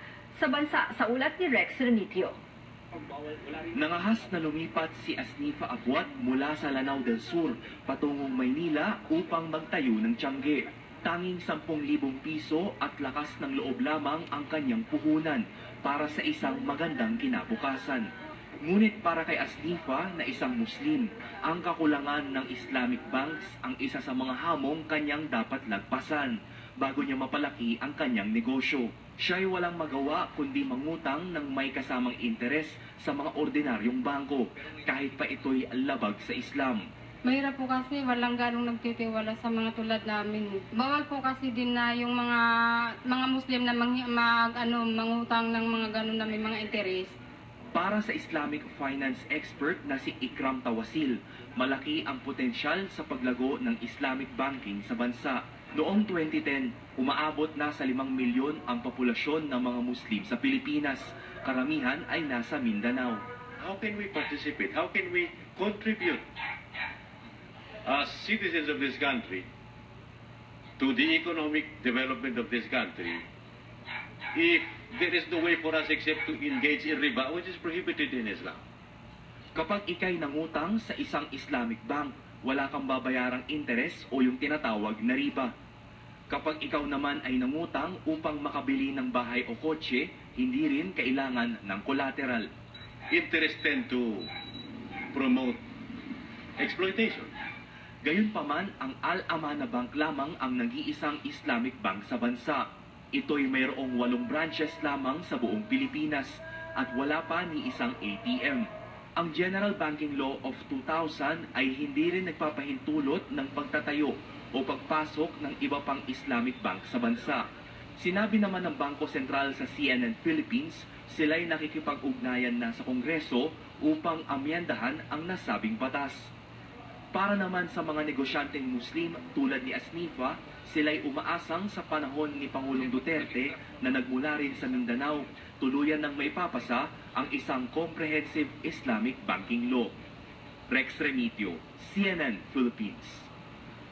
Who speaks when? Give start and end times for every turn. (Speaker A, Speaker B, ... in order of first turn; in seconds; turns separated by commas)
Speaker A: 0.4-2.3, Speaker B: 3.8-18.1, Speaker B: 18.6-36.9, Speaker C: 37.2-42.4, Speaker C: 43.1-47.2, Speaker B: 47.7-63.2, Speaker D: 63.6-66.2, Speaker D: 67.8-69.5, Speaker D: 70.8-73.2, Speaker D: 74.3-78.6, Speaker B: 79.5-85.5, Speaker B: 86.3-92.5, Speaker D: 93.1-94.3, Speaker D: 95.1-95.6, Speaker D: 96.6-97.3, Speaker B: 98.0-126.3, Speaker B: 127.1-139.9, Speaker B: 140.7-143.3